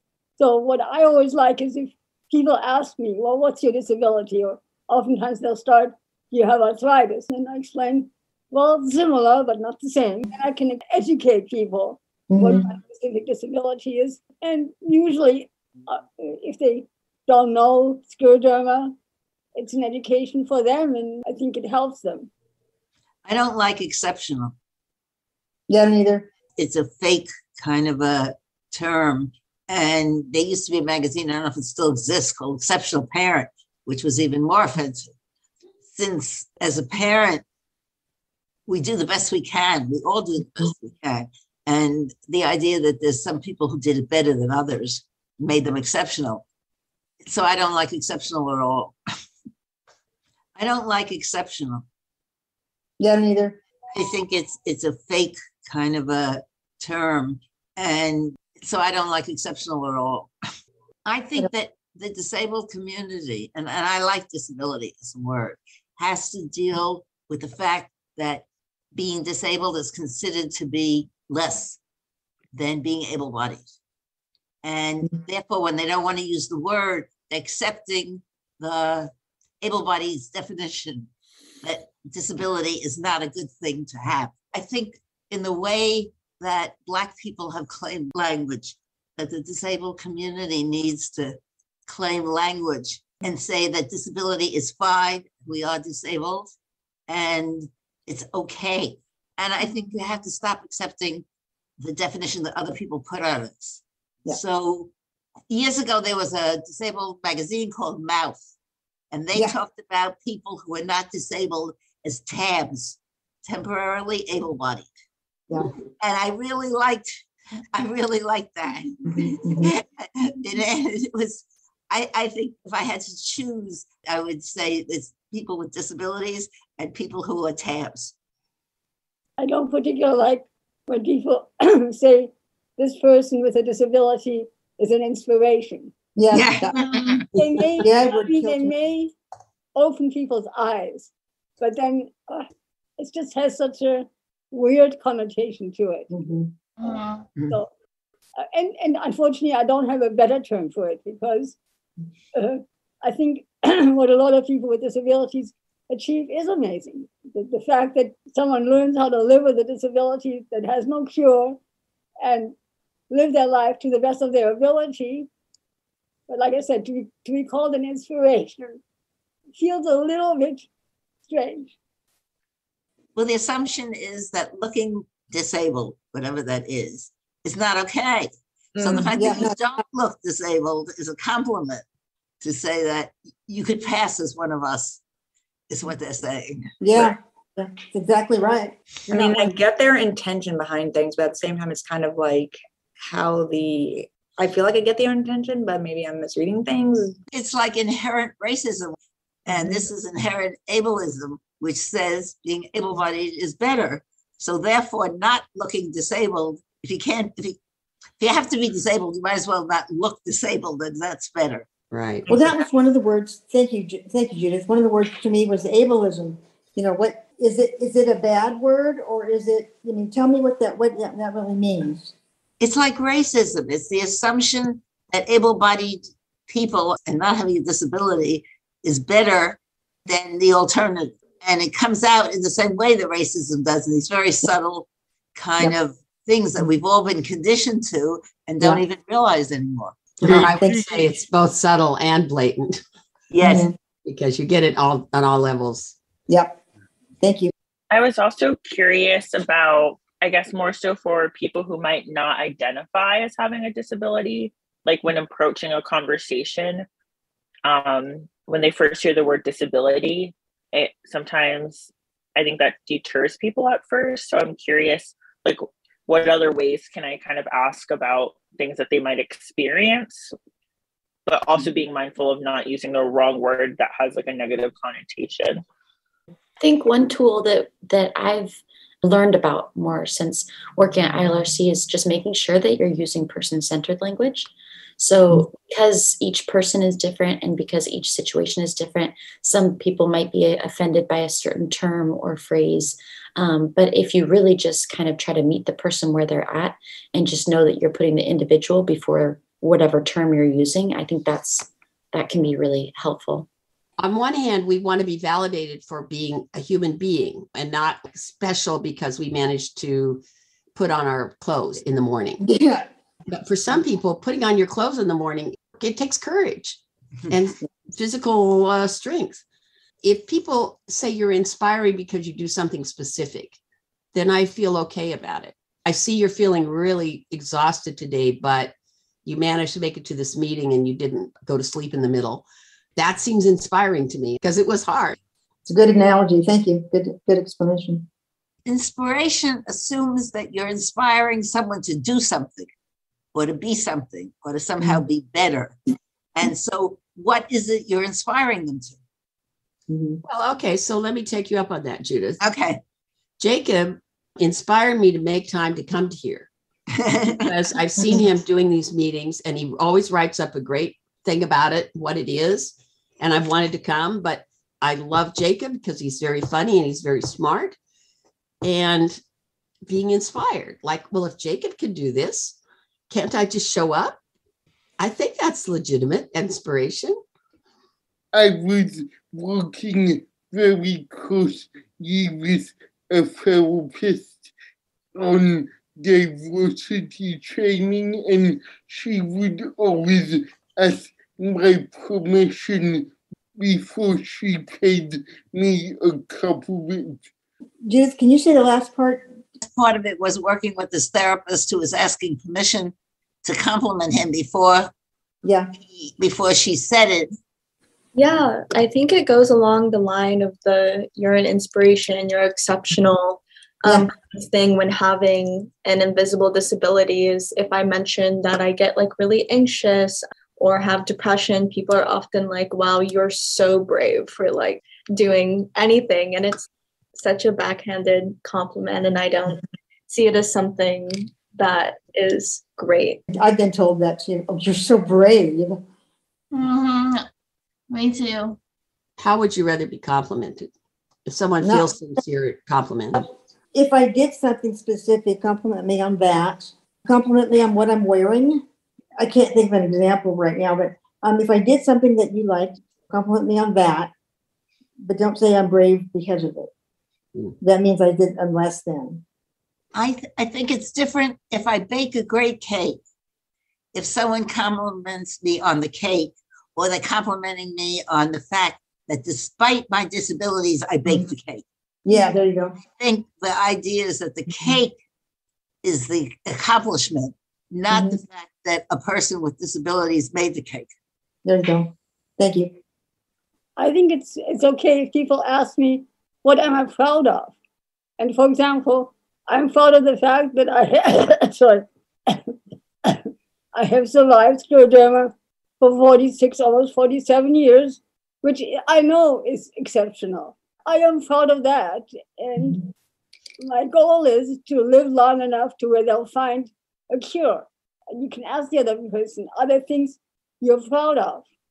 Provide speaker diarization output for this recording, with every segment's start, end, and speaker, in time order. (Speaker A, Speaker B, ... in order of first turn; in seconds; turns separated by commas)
Speaker A: 0.4-18.9, Speaker B: 12.3-12.7, Speaker A: 19.6-22.3, Speaker C: 23.3-24.5, Speaker B: 25.7-26.3, Speaker C: 26.6-35.1, Speaker C: 35.9-37.4, Speaker C: 38.7-46.4, Speaker C: 47.2-49.0, Speaker C: 50.6-51.8, Speaker B: 53.0-53.6, Speaker C: 54.0-60.3, Speaker C: 61.0-71.8, Speaker C: 72.5-73.7, Speaker C: 74.6-81.1, Speaker C: 81.6-96.5, Speaker C: 97.1-101.2, Speaker C: 101.8-104.9, Speaker C: 105.5-108.4, Speaker C: 109.1-114.9, Speaker C: 116.0-117.2, Speaker C: 117.7-128.1, Speaker B: 119.2-119.7, Speaker A: 129.4-135.9, Speaker B: 136.2-136.8, Speaker C: 136.3-137.3, Speaker A: 137.3-139.1, Speaker B: 137.8-138.7, Speaker A: 139.8-142.5, Speaker A: 143.0-146.1, Speaker B: 146.1-146.5, Speaker D: 146.9-147.2, Speaker A: 148.4-151.6, Speaker A: 152.3-161.6, Speaker A: 162.2-162.6, Speaker A: 163.1-165.3, Speaker A: 166.3-168.8, Speaker A: 169.6-170.7, Speaker A: 171.3-171.7, Speaker C: 173.2-181.8, Speaker B: 179.2-179.6, Speaker C: 182.4-185.0, Speaker C: 185.7-187.1, Speaker B: 186.8-189.5, Speaker E: 189.1-197.2, Speaker C: 197.3-198.9, Speaker C: 199.5-207.6, Speaker C: 208.2-211.7, Speaker F: 211.9-212.3, Speaker B: 212.3-222.1, Speaker C: 212.3-212.6, Speaker C: 222.6-240.2, Speaker B: 240.2-241.0, Speaker F: 240.2-242.8, Speaker C: 243.3-243.7, Speaker B: 243.4-243.7, Speaker F: 244.1-246.0, Speaker B: 246.3-246.6, Speaker B: 247.2-247.5, Speaker D: 247.9-256.9, Speaker D: 257.6-270.3, Speaker D: 271.3-275.6, Speaker G: 276.6-303.5, Speaker F: 304.0-310.2, Speaker F: 310.8-312.5, Speaker B: 312.4-312.9, Speaker F: 313.3-319.4, Speaker F: 320.0-323.6, Speaker F: 324.1-328.7, Speaker F: 329.3-332.4, Speaker F: 333.0-335.2, Speaker B: 335.7-338.1, Speaker C: 338.7-342.7, Speaker C: 343.3-345.8, Speaker C: 346.4-349.0, Speaker B: 349.9-350.2, Speaker F: 350.2-352.4, Speaker C: 352.4-352.8, Speaker F: 353.4-356.5, Speaker C: 357.0-357.5, Speaker F: 357.4-367.8, Speaker F: 368.6-369.2, Speaker F: 369.9-372.6, Speaker F: 373.1-374.2, Speaker F: 375.0-377.2, Speaker H: 378.3-384.5, Speaker H: 385.1-397.2, Speaker B: 397.8-399.4, Speaker C: 399.6-404.9, Speaker B: 405.4-405.7, Speaker C: 405.8-407.3, Speaker I: 408.1-433.2, Speaker B: 433.3-435.8, Speaker D: 436.5-437.3, Speaker D: 437.9-438.6, Speaker F: 439.2-440.7, Speaker F: 441.3-443.2, Speaker B: 441.6-442.2, Speaker B: 443.2-448.6, Speaker B: 449.2-454.1, Speaker B: 455.0-456.7, Speaker B: 457.6-459.2, Speaker C: 459.9-463.0, Speaker C: 463.9-471.6, Speaker B: 472.1-472.8, Speaker C: 472.8-475.0, Speaker C: 475.8-480.9, Speaker B: 477.9-478.2, Speaker B: 481.4-482.8, Speaker A: 483.8-487.6, Speaker A: 488.2-492.5, Speaker A: 493.8-502.8, Speaker A: 503.6-511.4